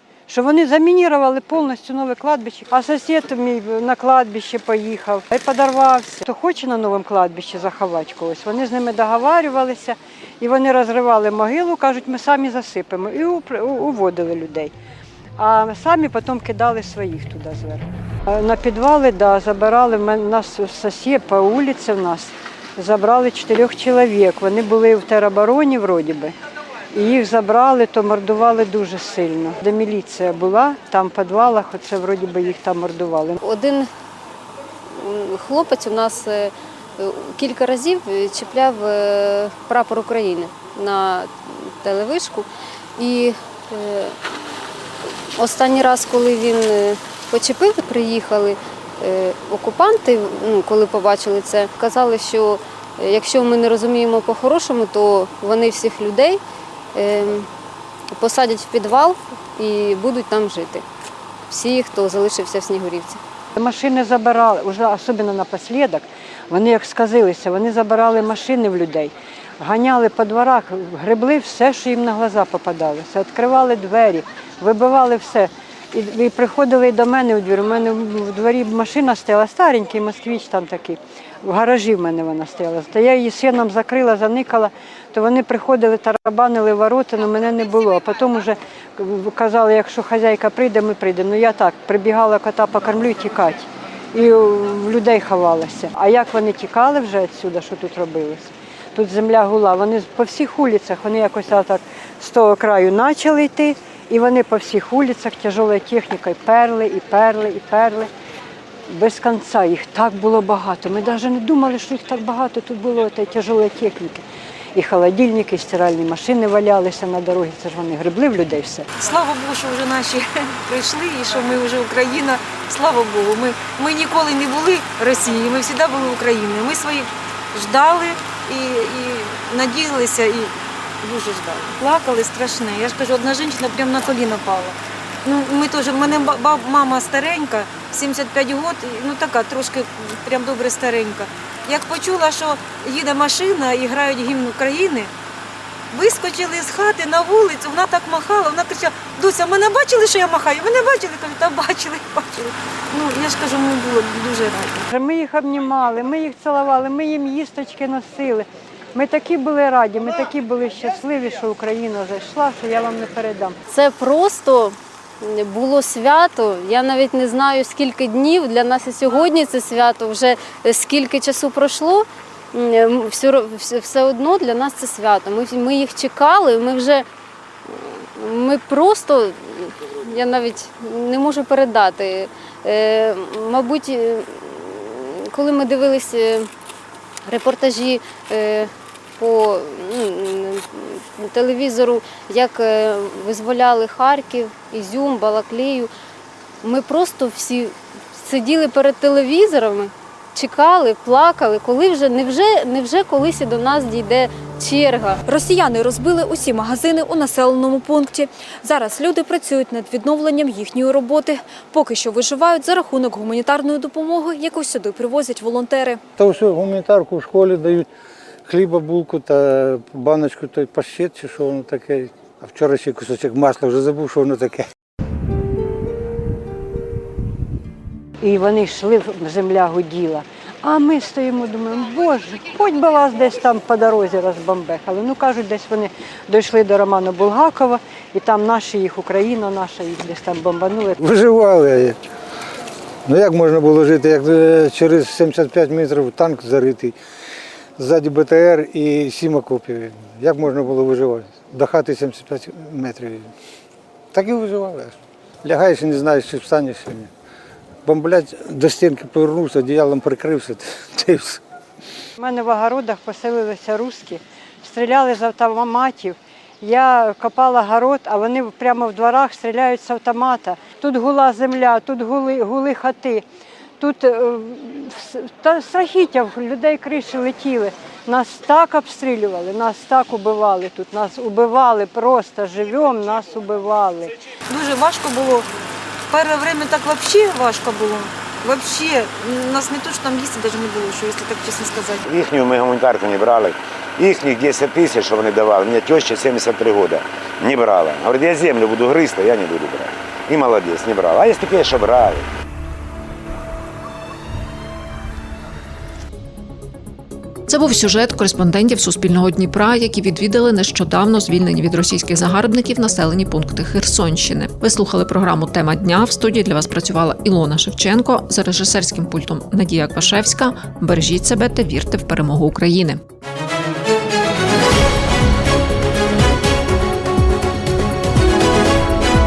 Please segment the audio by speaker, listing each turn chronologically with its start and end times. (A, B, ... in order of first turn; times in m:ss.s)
0:00.3-0:14.7 A
0:15.4-0:26.3 A
0:27.0-0:33.4 A
0:33.4-0:33.9 B
0:35.0-0:42.5 B
0:43.0-0:44.2 B
0:45.4-0:56.4 B
0:57.0-0:57.5 B
0:58.1-1:00.8 B
1:01.5-1:03.2 B
1:03.6-1:48.1 A
1:48.9-1:54.2 A
1:54.8-1:58.8 A
1:59.0-2:25.1 C
2:25.9-2:34.9 C
2:35.0-2:43.6 A
2:43.7-2:57.0 B
2:57.7-3:06.5 B
3:07.3-3:15.9 B
3:16.6-3:25.2 B
3:25.3-3:36.0 D
3:36.2-3:37.9 E
3:38.5-3:44.7 E
3:48.2-4:01.0 A
4:01.0-4:02.0 E
4:03.1-4:07.0 E
4:07.8-4:13.3 E
4:14.1-4:17.1 E
4:17.8-4:21.4 E
4:22.2-4:33.2 A
4:33.8-4:44.1 A
4:44.5-4:45.5 C
4:46.1-4:52.0 C
4:52.0-5:02.3 F
5:07.5-5:23.0 G